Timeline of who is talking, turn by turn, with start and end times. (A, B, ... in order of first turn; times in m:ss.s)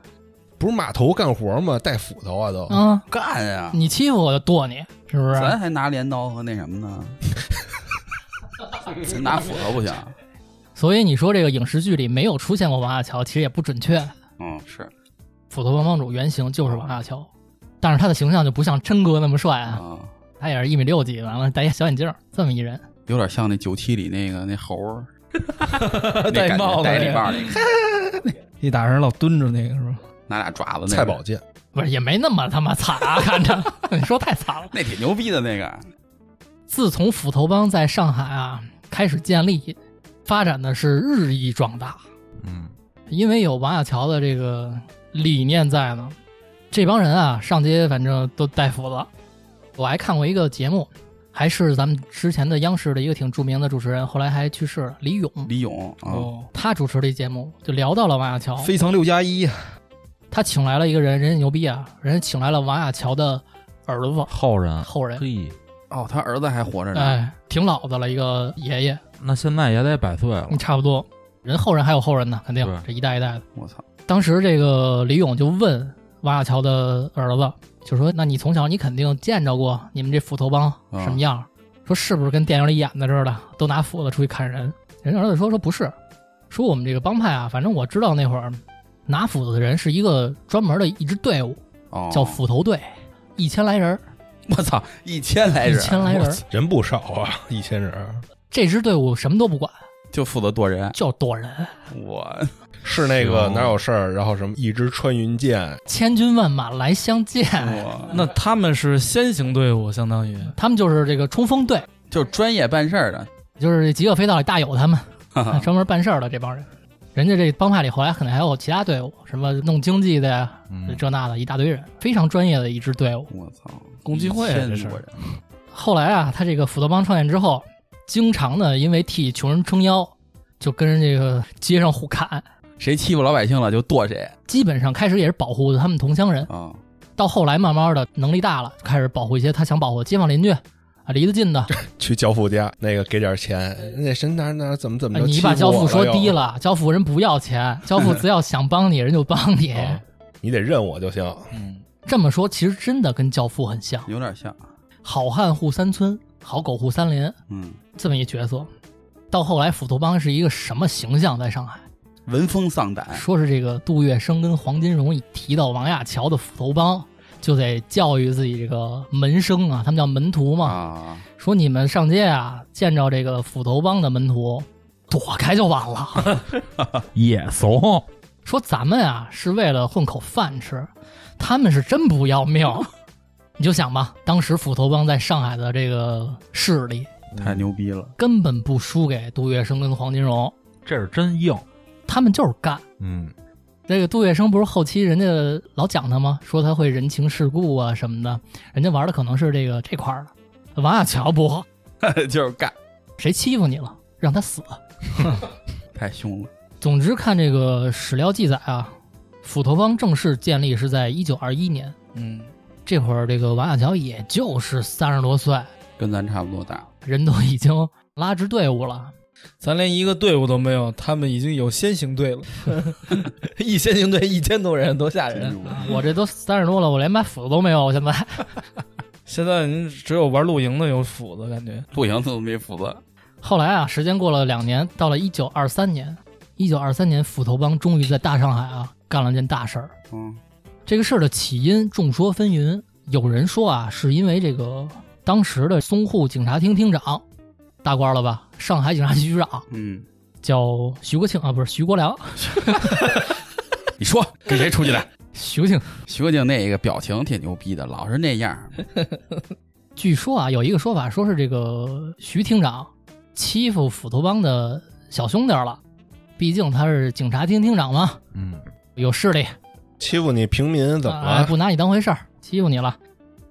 0:00.6-0:02.8 A
0:02.7-0:03.1 B
0:03.1-0:03.8 C
0:03.7-0:05.6 B
0:05.3-0:07.3 C
0:08.8-0:10.2 C
0:10.7-0:14.1 B
0:14.4-0:14.9 C
0:15.5-0:17.3 B
0:17.8-0:19.8 B
0:19.7-0:20.1 C
0:20.4-0:22.9 B
0:23.1-0:25.1 C
0:25.7-0:30.0 D
0:26.2-0:27.6 C
0:30.3-0:31.2 C
0:30.9-0:31.4 A
0:31.7-0:34.7 B
0:34.7-0:35.8 C
0:36.7-0:42.0 B
0:42.4-0:42.7 E
0:43.1-0:46.2 B
0:46.7-0:49.1 B
0:49.8-0:55.5 B
0:55.4-0:56.3 C
0:56.1-0:56.5 D
0:56.5-0:58.7 B
0:58.6-0:59.8 D
1:00.3-1:05.2 B
1:04.3-1:05.6 E
1:05.9-1:07.2 C
1:06.9-1:09.0 B
1:09.2-1:10.6 E
1:10.5-1:13.4 B
1:12.6-1:12.9 E
1:13.5-1:13.8 C
1:14.1-1:25.9 B
1:20.9-1:21.2 C
1:26.5-1:31.6 B
1:31.9-1:32.4 C
1:32.1-1:34.0 B
1:34.5-1:36.4 C
1:35.6-1:36.4 B
1:36.5-1:38.2 A
1:38.5-1:39.8 B
1:40.1-1:41.0 C
1:40.9-1:41.8 B
1:41.9-1:43.8 C
1:42.8-1:45.8 A
1:45.9-1:47.9 B
1:47.6-1:48.2 C
1:48.1-1:50.5 D
1:50.6-1:51.9 B
1:52.1-1:53.3 C
1:53.6-2:03.3 B
1:55.4-1:55.7 C
2:00.7-2:01.0 E
2:03.3-2:05.1 C
2:04.0-2:05.1 D
2:05.7-2:12.4 B
2:12.8-2:14.4 C
2:14.5-2:16.5 B
2:16.5-2:16.8 C
2:17.2-2:21.7 B
2:21.7-2:26.4 A
2:25.1-2:30.0 B
2:29.7-2:31.5 A
2:31.5-2:31.8 D
2:32.0-2:34.1 B
2:34.0-2:34.7 C
2:35.0-2:37.4 B
2:37.5-2:37.8 C
2:37.9-2:38.7 B
2:39.3-2:41.8 B
2:42.3-2:43.2 C
2:43.1-2:50.8 B
2:50.6-2:51.2 C
2:51.4-2:56.4 B
2:57.1-2:58.0 E
2:58.4-3:02.9 B
3:03.6-3:07.1 B
3:07.4-3:08.1 C
3:08.2-3:10.5 B
3:10.8-3:11.6 E
3:12.1-3:12.8 B
3:13.0-3:13.3 E
3:13.9-3:21.6 B
3:22.0-3:22.7 C
3:23.2-3:24.8 B
3:25.9-3:26.5 C
3:26.8-3:32.0 B
3:32.1-3:32.5 D
3:32.9-3:35.7 B
3:36.0-3:36.9 C
3:37.0-3:39.1 B
3:39.6-3:45.8 D
3:45.3-3:45.9 C
3:45.8-3:48.5 B
3:49.2-3:51.9 D
3:51.9-3:53.0 C
3:53.4-3:59.9 B
4:00.1-4:00.4 C
4:00.9-4:07.2 B
4:07.8-4:09.6 B
4:09.7-4:10.0 C
4:10.4-4:13.0 B
4:12.4-4:13.2 C
4:14.0-4:15.1 C
4:15.3-4:16.0 B
4:16.1-4:18.8 C
4:20.0-4:25.8 B
4:26.4-4:28.2 B
4:28.4-4:28.6 E
4:29.0-4:29.6 B
4:30.0-4:31.6 A
4:31.0-4:33.0 B